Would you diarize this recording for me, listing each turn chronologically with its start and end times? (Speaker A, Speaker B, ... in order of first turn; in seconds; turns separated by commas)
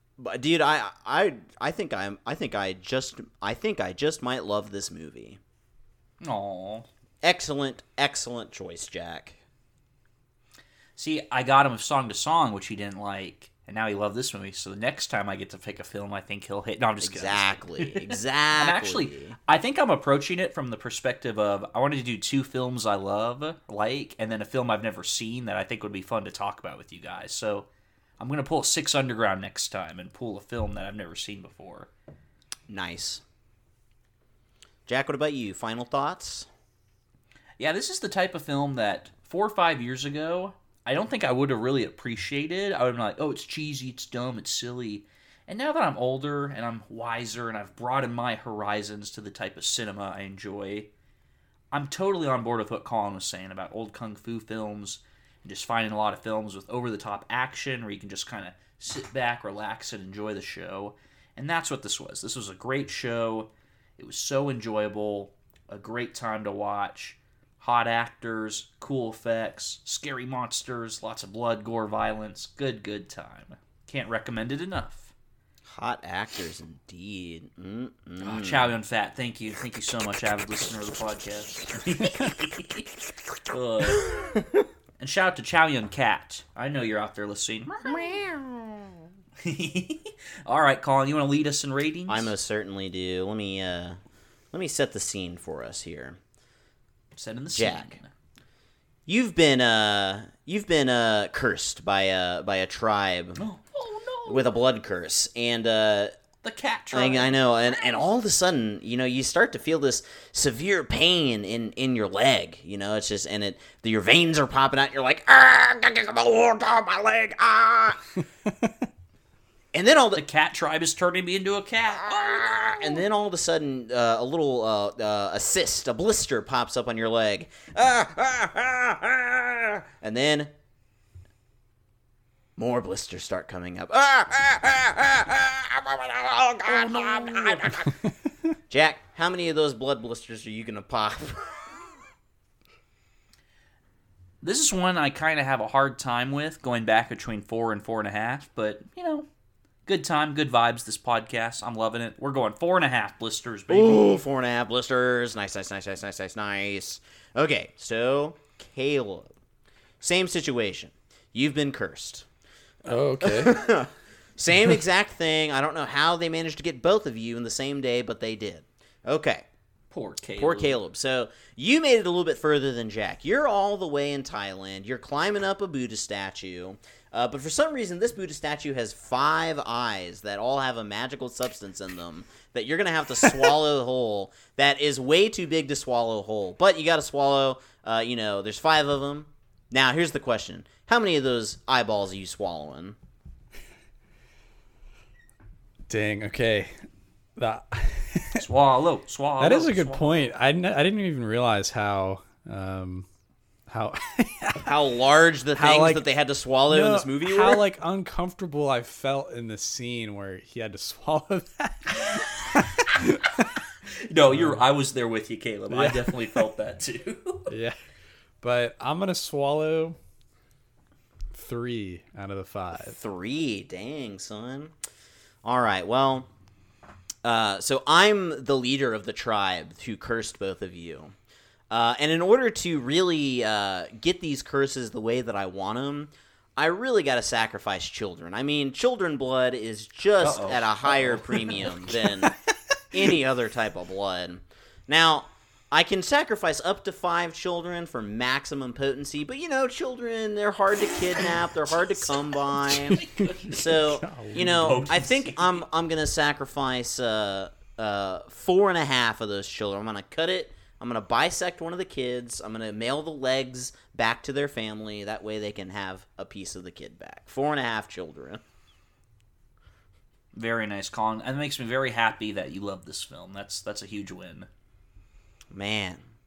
Speaker A: 0.2-5.4, Speaker B: 6.2-6.9, Speaker A: 7.2-9.4, Speaker B: 11.0-27.7, Speaker A: 17.0-19.4, Speaker B: 28.2-31.9, Speaker A: 32.7-33.2, Speaker A: 34.9-36.5, Speaker B: 37.6-50.9, Speaker B: 51.7-75.1, Speaker A: 75.7-78.7, Speaker B: 78.2-82.9, Speaker B: 83.5-84.1, Speaker A: 83.9-84.6, Speaker B: 85.0-87.8, Speaker A: 87.8-88.9, Speaker B: 89.4-92.3, Speaker A: 92.1-94.0, Speaker A: 94.5-96.2, Speaker B: 97.2-98.1, Speaker A: 97.5-98.0, Speaker A: 99.1-103.4, Speaker B: 103.4-104.5, Speaker A: 104.3-106.1, Speaker B: 106.4-108.1, Speaker A: 106.9-118.0, Speaker A: 119.7-120.2, Speaker B: 120.2-123.0, Speaker A: 122.0-130.5, Speaker A: 132.6-138.0, Speaker B: 136.7-137.8, Speaker A: 138.7-141.8, Speaker B: 144.4-149.3, Speaker B: 149.9-154.2, Speaker A: 153.7-159.3, Speaker A: 160.0-162.3, Speaker C: 162.9-163.6, Speaker A: 163.2-169.4, Speaker B: 169.9-170.8, Speaker A: 170.4-193.0, Speaker C: 195.9-196.8, Speaker C: 197.4-198.4, Speaker B: 198.4-200.3, Speaker C: 199.4-203.1, Speaker C: 203.7-204.8, Speaker A: 204.6-207.6, Speaker C: 205.6-206.1, Speaker C: 206.7-213.4, Speaker B: 212.0-212.9, Speaker B: 214.0-217.5, Speaker C: 214.3-214.6, Speaker C: 215.7-216.3, Speaker C: 217.5-217.8, Speaker C: 218.4-220.0, Speaker C: 221.3-223.0, Speaker A: 222.9-224.7, Speaker A: 225.4-226.3, Speaker A: 227.2-231.1, Speaker A: 231.7-242.4, Speaker B: 240.2-242.0, Speaker A: 242.9-253.0, Speaker B: 252.9-253.7, Speaker C: 253.2-255.1, Speaker A: 253.5-268.4, Speaker B: 254.3-255.4, Speaker B: 270.4-274.5, Speaker A: 275.5-276.0